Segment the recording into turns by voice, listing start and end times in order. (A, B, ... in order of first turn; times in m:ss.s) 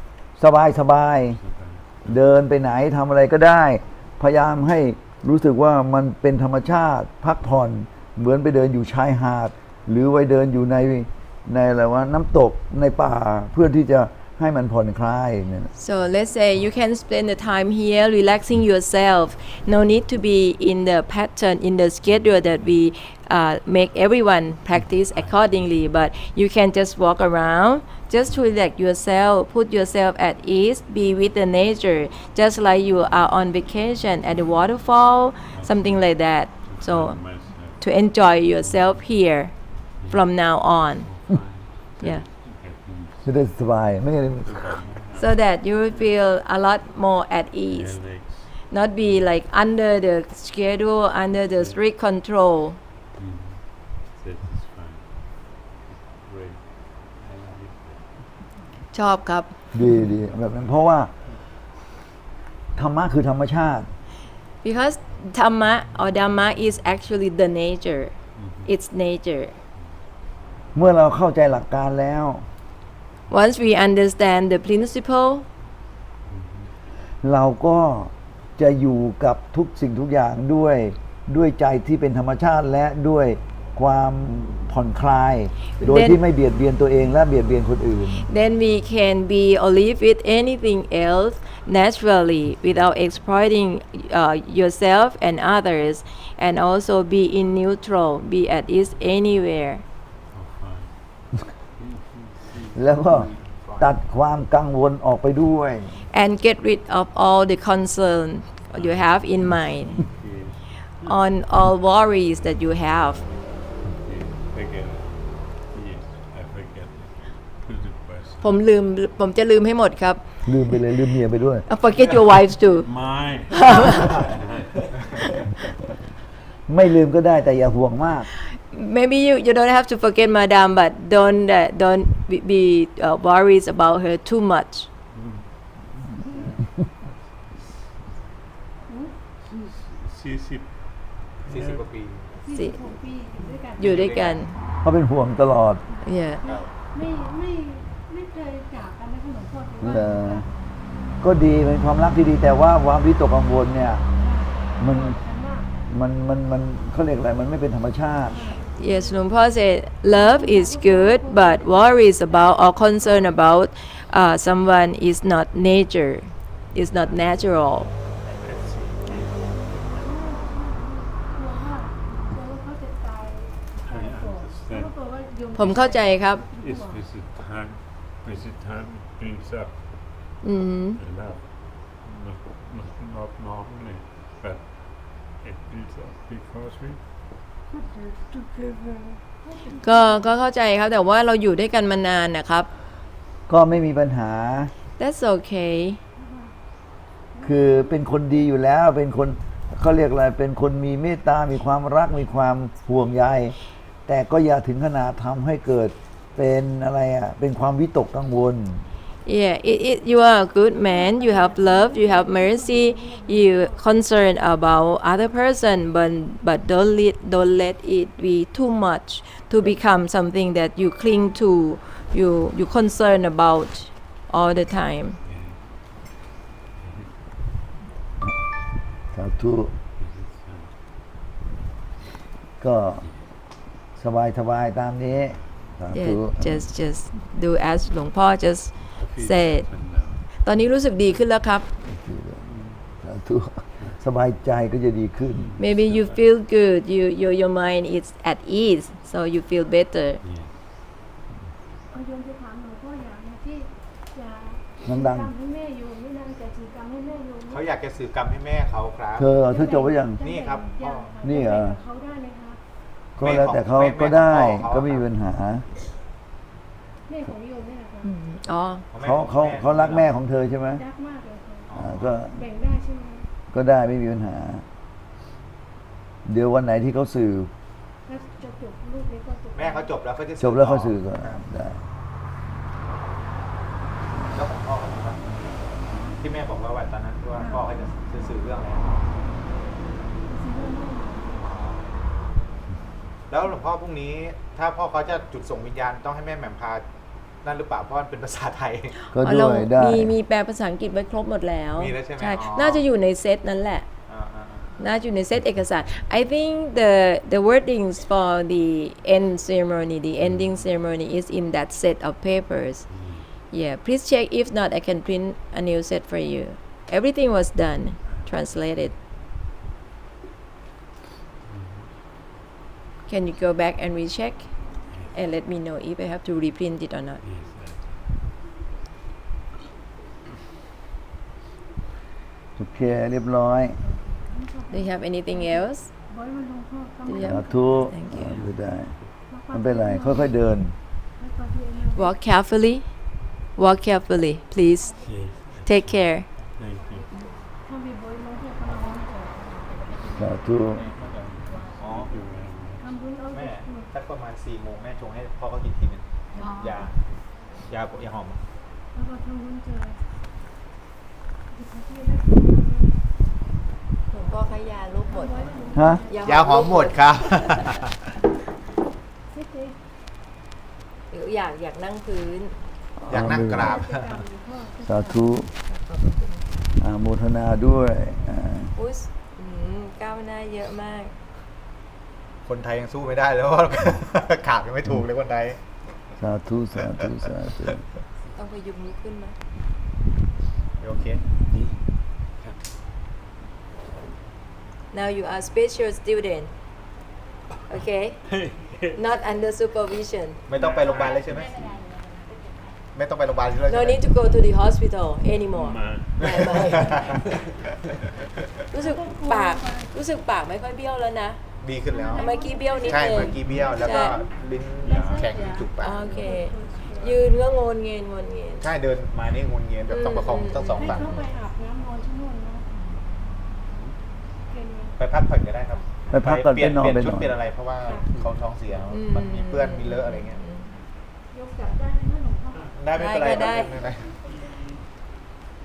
0:00.4-0:01.4 A
0:01.3-0:02.2 B
0:02.0-0:15.7 A
0:15.8-0:41.1 C
0:25.0-0:25.8 B
0:28.2-0:28.5 B
0:35.5-0:37.9 B
0:38.6-0:39.0 B
0:40.0-0:40.3 B
0:41.0-0:43.3 B
0:43.2-0:44.8 A
0:44.4-0:46.1 B
0:45.2-0:52.8 C
0:47.7-0:49.2 B
0:53.2-0:58.2 B
0:58.9-0:59.5 C
0:59.7-1:01.1 A
1:00.2-1:00.7 B
1:02.8-1:03.9 A
1:04.6-1:09.6 C
1:08.4-1:08.7 B
1:10.8-1:12.5 A
1:13.3-1:15.5 C
1:16.3-1:16.7 B
1:17.2-1:28.3 A
1:25.8-1:26.2 C
1:28.3-1:39.8 C
1:40.3-1:42.8 B
1:42.8-1:46.0 A
1:43.1-1:44.0 D
1:46.1-1:50.0 C
1:48.7-1:51.1 B
1:51.1-1:53.2 C
1:53.9-1:58.6 B
1:58.4-2:00.4 C
2:00.4-2:01.6 A
2:01.7-2:02.9 C
2:02.0-2:05.4 B
2:03.5-2:04.1 C
2:06.7-2:08.3 A
2:08.4-2:14.9 C
2:15.1-2:15.5 B
2:16.3-2:17.5 B
2:18.9-2:19.7 E
2:19.5-2:21.8 B
2:21.5-2:22.3 D
2:22.3-2:24.4 E
2:22.5-2:22.8 C
2:23.8-2:24.6 C
2:23.8-2:24.4 D
2:24.8-2:25.8 A
2:25.9-2:30.5 E
2:26.0-2:26.5 C
2:29.8-2:30.5 A
2:31.2-2:34.0 A
2:34.2-2:35.7 E
2:34.8-2:35.2 A
2:35.9-2:38.4 A
2:38.3-2:39.0 E
2:38.8-2:47.9 C
2:40.1-2:43.3 E
2:46.8-2:49.9 B
2:50.0-2:57.0 E
2:53.8-2:55.0 B
2:55.6-2:56.4 C
2:56.6-3:00.4 B
3:00.4-3:01.0 C
3:01.0-3:07.0 B
3:07.7-3:10.2 E
3:09.8-3:12.7 C
3:13.5-3:14.7 A
3:15.0-3:16.0 C
3:16.2-3:16.5 E
3:17.3-3:18.0 E
3:17.4-3:23.6 A
3:24.1-3:28.8 A
3:29.3-3:45.2 C
3:30.8-3:33.8 E
3:45.2-3:46.2 B
3:46.8-3:47.2 B
3:49.1-3:49.7 A
3:50.0-3:50.7 B
3:52.6-3:53.1 A
3:54.0-3:56.7 A
3:55.9-3:59.7 C
3:59.0-4:00.2 B
4:00.3-4:01.7 C
4:01.9-4:02.5 A
4:02.5-4:02.8 B
4:03.0-4:05.5 A
4:05.3-4:06.2 B
4:05.6-4:10.2 C
4:10.2-4:10.6 B
4:11.9-4:17.6 E
4:14.8-4:15.3 A
4:17.5-4:19.4 D
4:19.2-4:20.2 A
4:19.5-4:22.6 E
4:20.2-4:21.2 D
4:21.2-4:21.8 A
4:23.2-4:25.6 A
4:23.2-4:25.0 D
4:27.1-4:28.1 E
4:28.0-4:28.9 C
4:28.9-4:30.1 D
4:29.0-4:30.8 A
4:30.8-4:33.3 E
4:31.7-4:32.1 D
4:31.8-4:32.4 A
4:33.5-4:34.6 A
4:36.3-4:37.5 A
4:38.1-4:39.9 E
4:39.6-4:41.4 D
4:40.4-4:41.8 A
4:44.3-4:45.3 D
4:46.2-4:48.9 D
4:47.4-4:47.6 E
4:50.3-4:51.4 E
4:51.4-4:51.9 D
4:53.3-4:56.8 D
4:57.4-4:59.0 D
4:59.0-5:03.9 C
4:59.1-5:00.2 A
5:01.8-5:02.8 D
5:04.1-5:04.7 D
5:04.8-5:19.0 C
5:12.9-5:13.3 B
5:21.4-5:22.0 B
5:23.1-5:27.2 C
5:24.9-5:25.2 B
5:27.2-5:28.0 B
5:32.6-5:33.8 A
5:33.8-5:37.9 E
5:34.7-5:35.9 C
5:37.1-5:38.4 C
5:37.2-5:40.8 A
5:38.1-5:39.1 B
5:39.3-5:40.4 E
5:41.2-5:42.1 E
5:42.0-5:46.3 C
5:45.0-5:47.1 B
5:47.6-5:49.4 E
5:50.1-5:50.8 A
5:50.7-5:52.1 D
5:51.8-5:52.9 B
5:52.8-5:53.9 E
5:53.3-5:57.0 D
5:57.6-5:58.4 D
5:58.9-6:00.0 E
6:01.5-6:03.0 E
6:04.1-6:05.5 C
6:05.1-6:06.4 E
6:05.7-6:06.0 A
6:06.1-6:07.7 C
6:06.2-6:08.0 D
6:09.3-6:09.8 E
6:11.1-6:12.6 C
6:13.0-6:13.8 A
6:13.1-6:14.2 D
6:13.5-6:15.3 E
6:14.8-6:15.5 A
6:15.6-6:16.4 C
6:16.8-6:18.7 A
6:18.8-6:21.1 C
6:22.4-6:25.6 D
6:26.2-6:27.8 A
6:28.4-6:29.4 C
6:30.8-6:31.2 D
6:31.5-6:32.6 B
6:34.9-6:36.5 C
6:37.7-6:38.4 C
6:38.3-6:39.0 B
6:38.9-6:40.4 C
6:40.5-6:41.6 D
6:41.4-6:42.1 E
6:42.9-6:44.0 D
6:43.7-6:47.2 C
6:45.5-6:47.4 B
6:46.4-6:47.2 D
6:48.7-6:51.4 C
6:48.8-6:49.9 E
6:51.6-6:52.3 D
6:51.9-6:54.2 E
6:52.1-6:54.2 C
6:52.8-6:56.0 D
6:53.4-6:53.7 B
6:54.8-6:55.6 B
6:54.9-6:57.2 E
6:55.8-6:58.7 C
6:58.6-7:01.2 D
6:59.9-7:01.3 C
7:00.8-7:02.7 E
7:04.5-7:05.0 E
7:05.0-7:10.4 D
7:06.1-7:07.3 A
7:08.9-7:10.7 C
7:11.3-7:12.7 E
7:12.7-7:14.1 D
7:12.9-7:13.8 C
7:14.3-7:14.8 B